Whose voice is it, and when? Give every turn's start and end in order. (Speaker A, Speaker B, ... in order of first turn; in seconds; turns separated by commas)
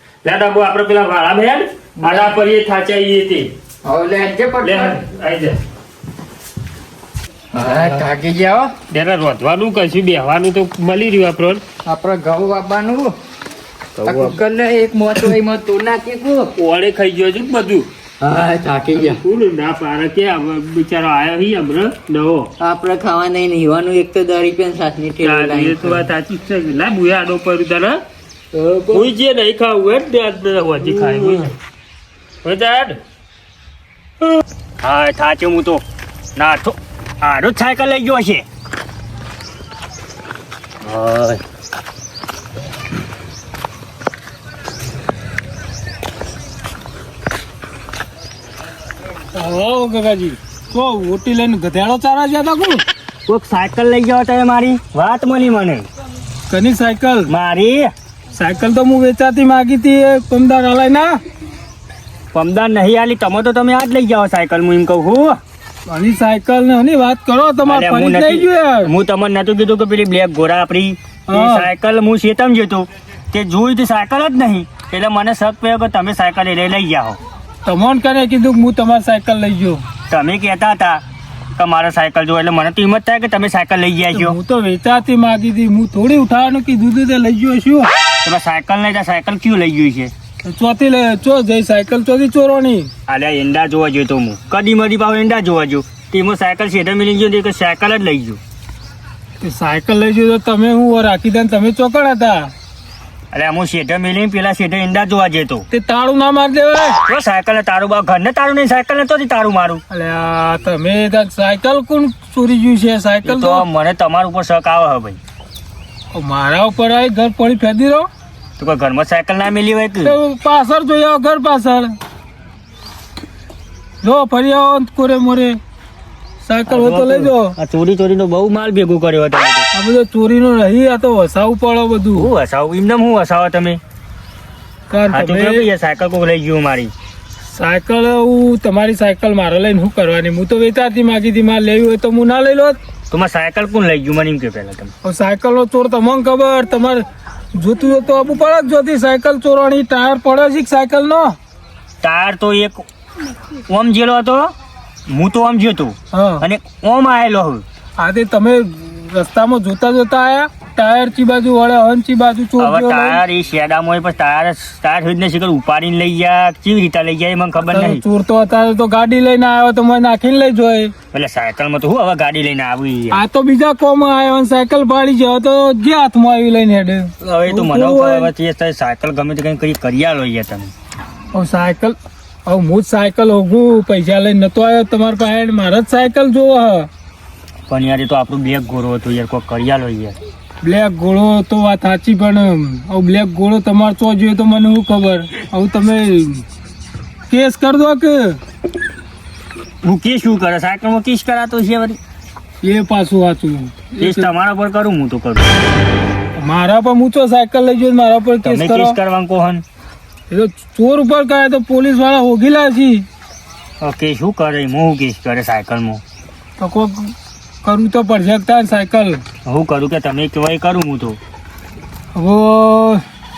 Speaker A: 0.2-3.5, Speaker B: 2.0-2.4, Speaker B: 3.9-5.0, Speaker A: 4.6-5.6, Speaker B: 7.5-8.7, Speaker A: 7.7-8.0, Speaker A: 8.9-11.6, Speaker B: 11.9-13.1, Speaker A: 14.0-14.4, Speaker B: 14.1-16.5, Speaker A: 16.6-17.9, Speaker B: 18.2-19.2, Speaker A: 18.9-22.5, Speaker B: 22.6-26.1, Speaker A: 25.2-28.0, Speaker B: 28.5-29.1, Speaker A: 28.9-31.5, Speaker A: 32.4-33.0, Speaker C: 34.8-35.8, Speaker C: 36.4-38.5, Speaker A: 40.8-41.4, Speaker D: 49.3-52.8, Speaker C: 53.3-55.9, Speaker D: 56.5-57.3, Speaker C: 57.3-57.9, Speaker D: 58.4-61.2, Speaker C: 62.3-65.4, Speaker D: 65.9-68.9, Speaker C: 67.7-77.2, Speaker D: 71.3-71.7, Speaker D: 77.7-79.8, Speaker C: 80.1-81.0, Speaker C: 81.6-84.4, Speaker D: 84.1-87.9, Speaker C: 88.2-90.1, Speaker D: 90.4-92.9, Speaker C: 93.1-98.4, Speaker D: 99.4-102.5, Speaker C: 103.3-105.7, Speaker D: 105.7-107.0, Speaker C: 107.0-109.8, Speaker D: 109.9-113.7, Speaker C: 113.2-115.2, Speaker D: 116.1-118.1, Speaker C: 118.6-120.2, Speaker D: 120.0-121.9, Speaker D: 124.0-125.6, Speaker D: 126.4-127.5, Speaker C: 126.7-129.7, Speaker D: 129.7-132.3, Speaker C: 132.2-133.8, Speaker D: 134.9-135.7, Speaker C: 135.1-136.9, Speaker D: 137.4-142.8, Speaker C: 143.1-144.9, Speaker D: 145.0-147.0, Speaker D: 147.6-151.4, Speaker C: 152.0-152.8, Speaker C: 153.7-154.5, Speaker C: 155.1-157.6, Speaker D: 156.1-156.4, Speaker D: 158.0-163.2, Speaker C: 162.6-168.0, Speaker D: 167.6-170.9, Speaker C: 171.1-173.2, Speaker D: 173.1-178.3, Speaker C: 177.2-180.7, Speaker D: 181.3-186.9, Speaker C: 187.7-190.2, Speaker D: 190.6-196.4, Speaker D: 197.3-198.4, Speaker C: 199.8-202.0, Speaker D: 202.6-204.3, Speaker C: 204.0-205.6, Speaker D: 206.4-209.0, Speaker C: 208.4-209.6, Speaker D: 210.3-213.1, Speaker C: 213.8-216.0, Speaker D: 216.6-217.1, Speaker D: 217.6-219.2, Speaker C: 219.4-221.2, Speaker D: 222.2-223.0